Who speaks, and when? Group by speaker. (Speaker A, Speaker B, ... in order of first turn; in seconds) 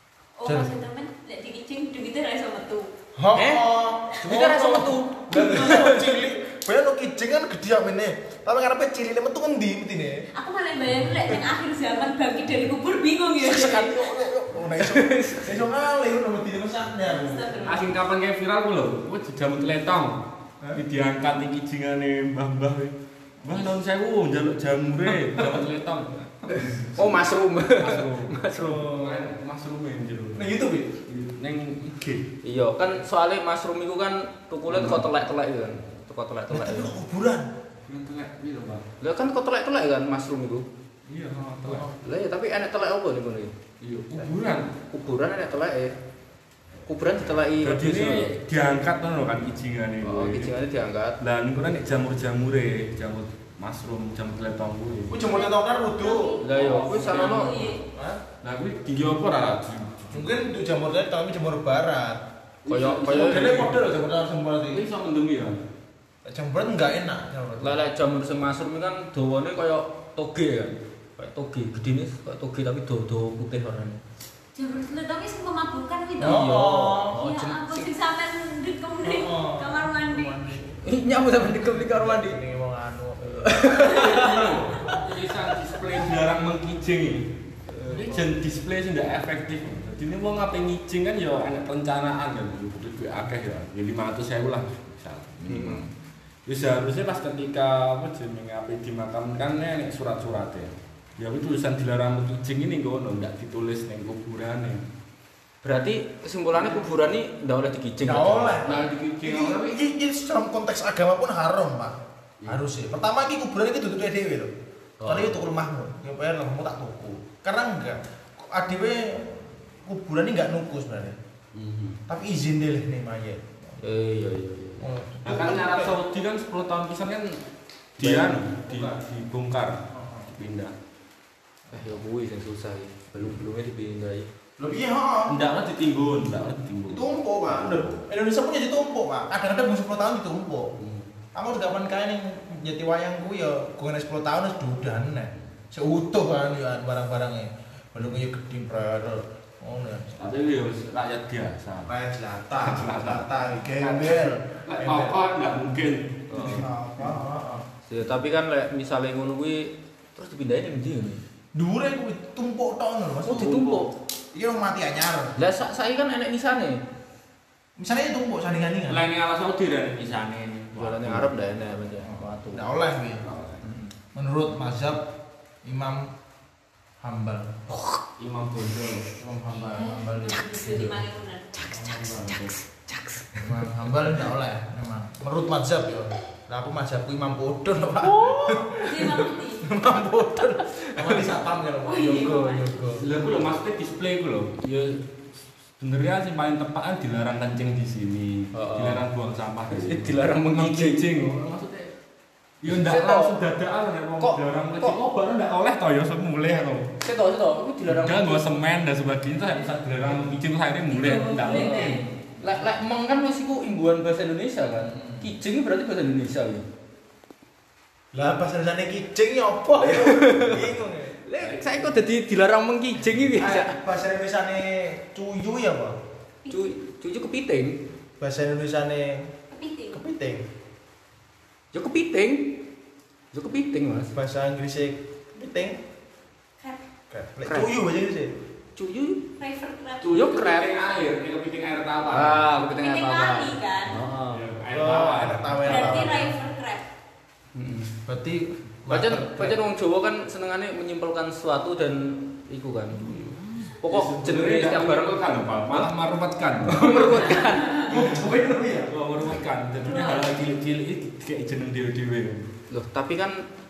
Speaker A: 0.4-2.9, 5.5-5.8, 10.3-14.0, 17.1-17.9, 55.3-57.8, 74.5-76.4, 77.2-80.5, 83.8-84.2, 179.8-182.5, 188.8-189.7, 191.8-192.7, 210.9-212.1, 226.4-226.7, 229.5-230.0, 239.4-240.1, 242.6-244.0, 245.6-246.9, 259.8-260.5
Speaker B: 0.4-0.7, 3.2-10.2, 13.4-17.8, 28.7-29.3, 30.4-31.0, 36.5-37.5, 41.6-42.0, 55.1-56.4, 57.9-58.2, 60.1-62.2, 63.1-64.8, 66.2-67.8, 76.2-77.2, 79.0-83.3, 87.9-88.1, 108.0-114.5, 115.0-121.2, 122.1-123.8, 124.8-126.0, 128.0-129.0, 129.9-130.3, 134.6-135.4, 136.9-140.7, 141.3-150.2, 151.8-155.2, 156.4-157.7, 161.5-165.3, 167.8-169.1, 172.0-173.2, 174.1-175.0, 175.6-176.1, 177.0-177.5, 179.2-181.0, 181.6-182.4, 183.4-193.1, 214.8-215.3, 218.1-221.2, 223.3-226.0, 228.2-229.3, 229.9-230.5, 234.1-235.8, 237.1-238.4, 244.7-246.3, 248.1-249.6, 257.7-258.9
Speaker C: 3.4-3.7, 4.2-6.1, 14.7-15.6, 26.9-28.9, 32.4-36.9, 39.0-40.7, 42.0-43.5, 44.9-46.0, 46.9-48.3, 50.0-51.2, 56.4-57.7, 62.7-63.5, 67.6-74.0, 76.2-77.9, 80.8-82.4, 83.2-86.1, 95.5-95.8, 105.6-108.6, 115.0-115.4, 123.8-124.9, 131.7-134.3, 156.3-156.7, 157.9-161.2, 163.2-163.9, 165.4-166.8, 170.7-172.7, 173.6-173.9, 182.4-183.5, 188.2-188.7, 191.0-191.3, 198.5-199.1, 199.7-201.4, 202.7-203.5, 204.2-205.0, 207.0-208.5, 211.2-216.7, 219.8-220.7, 221.3-223.8, 226.5-227.8, 231.7-232.6, 233.3-234.1, 237.4-237.7, 238.8-239.3, 240.1-240.9, 242.1-244.4, 247.5-247.9, 248.9-255.2, 256.7-257.9, 262.7-263.5
Speaker D: 17.6-20.2, 20.7-30.6, 31.1-32.3, 34.7-35.1, 37.9-38.9, 41.1-41.9, 43.8-44.7, 47.6-50.5, 51.2-55.2, 56.4-57.8, 58.4-60.3, 62.6-63.8, 64.7-65.6, 83.8-87.3, 87.8-95.9, 96.5-104.9, 106.5-106.8, 108.6-109.8, 121.5-122.0, 125.2-127.4, 128.0-130.7, 135.3-137.9, 150.2-151.9, 152.6-157.1, 168.9-171.3, 173.2-173.6, 178.2-179.1, 182.3-182.5, 193.0-195.0, 195.8-201.9, 202.6-206.9, 207.8-212.1, 221.4-222.0, 240.0-242.5, 244.3-246.3, 253.9-257.4, 258.9-262.5